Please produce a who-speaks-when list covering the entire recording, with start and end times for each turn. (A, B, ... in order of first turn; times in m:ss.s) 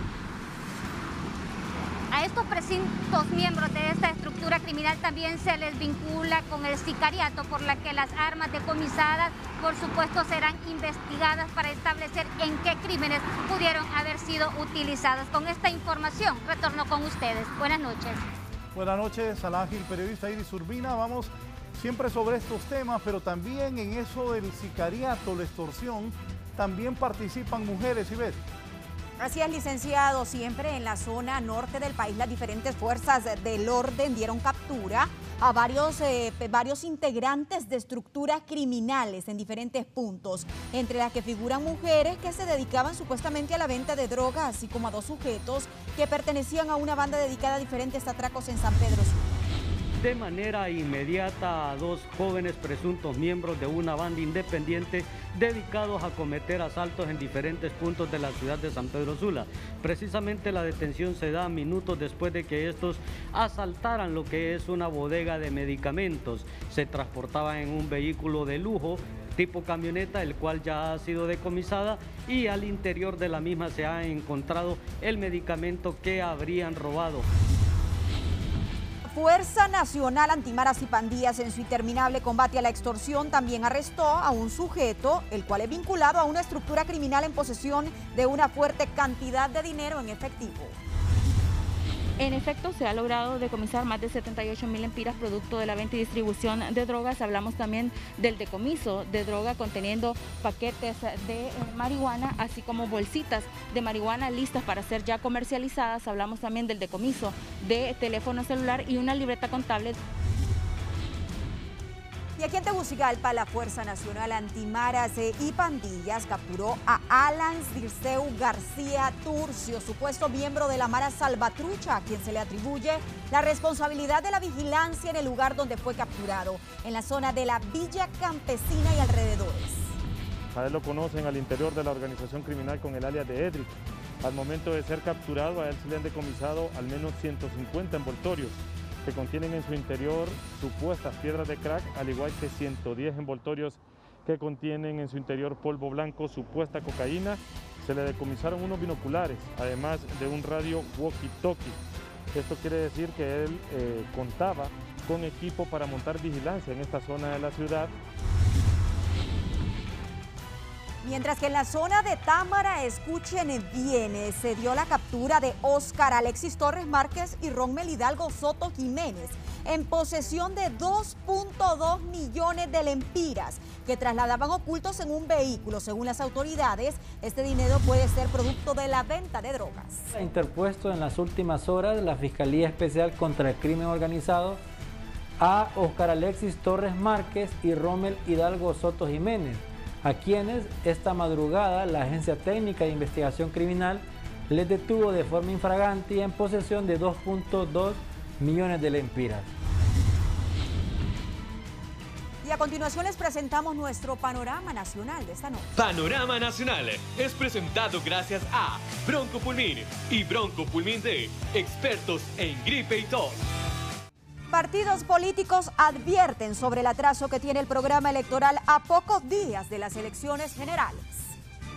0:02.1-0:18.2 A
0:18.7-0:28.4 B
0:29.2-0:49.3 C
0:50.0-1:17.2 D
1:19.0-1:30.8 C
1:32.2-1:50.0 E
1:52.4-2:10.0 C
2:10.5-2:31.8 F
2:32.3-2:37.9 F
2:41.0-3:00.1 C
3:00.1-3:04.6 G
3:05.4-3:19.5 G
3:22.4-3:25.7 C
3:25.8-3:33.4 H
3:34.5-3:41.4 C